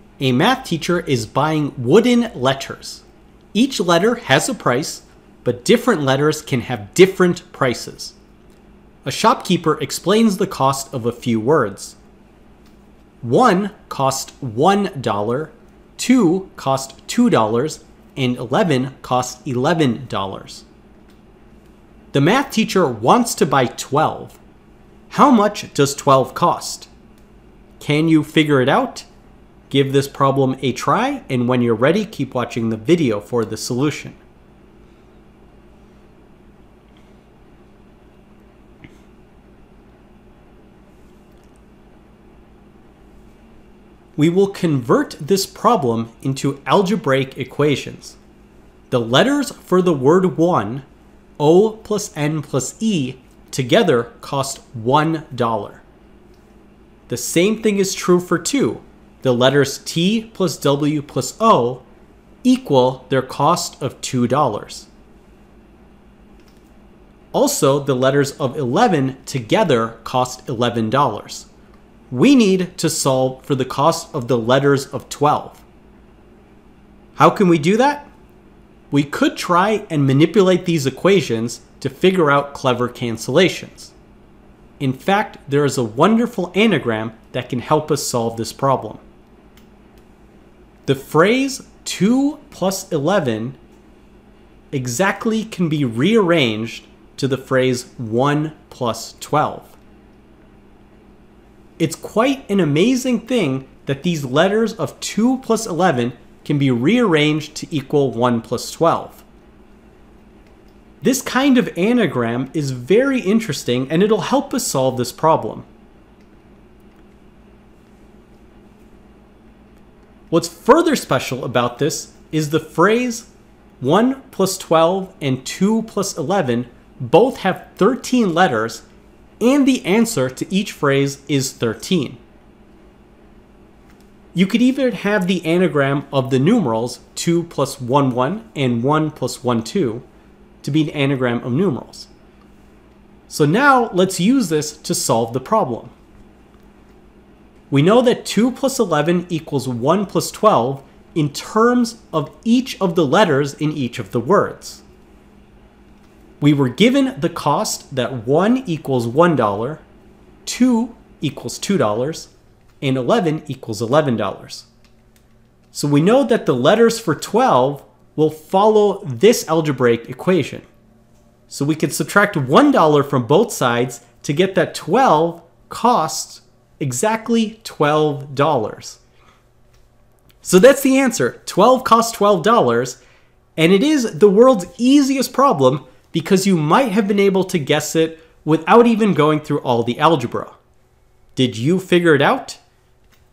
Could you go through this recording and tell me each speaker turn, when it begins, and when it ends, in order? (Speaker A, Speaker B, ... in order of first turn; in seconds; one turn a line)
Speaker A: 0.2-8.2
Speaker A: 9.1-12.0
Speaker A: 13.2-20.7
Speaker A: 22.1-24.4
Speaker A: 25.1-26.9
Speaker A: 27.8-29.1
Speaker A: 29.7-34.2
Speaker A: 44.2-48.2
Speaker A: 48.9-50.9
Speaker A: 51.4-55.8
Speaker A: 57.1-61.9
Speaker A: 62.4-64.9
Speaker A: 67.3-71.5
Speaker A: 72.1-75.6
Speaker A: 77.2-78.1
Speaker A: 78.9-83.9
Speaker A: 84.8-89.0
Speaker A: 90.9-93.6
Speaker A: 94.7-99.8
Speaker A: 101.8-109.2
Speaker A: 111.0-115.7
Speaker A: 120.3-123.3
Speaker A: 123.8-128.8
Speaker A: 129.4-132.2
Speaker A: 134.3-140.1
Speaker A: 140.6-142.1
Speaker A: 143.3-145.9
Speaker A: 147.7-154.8
Speaker A: 156.4-159.8
Speaker A: 160.4-164.7
Speaker A: 165.7-170.7
Speaker A: 171.5-179.0
Speaker A: 180.4-183.0
Speaker A: 183.6-190.6
Speaker A: 191.3-192.6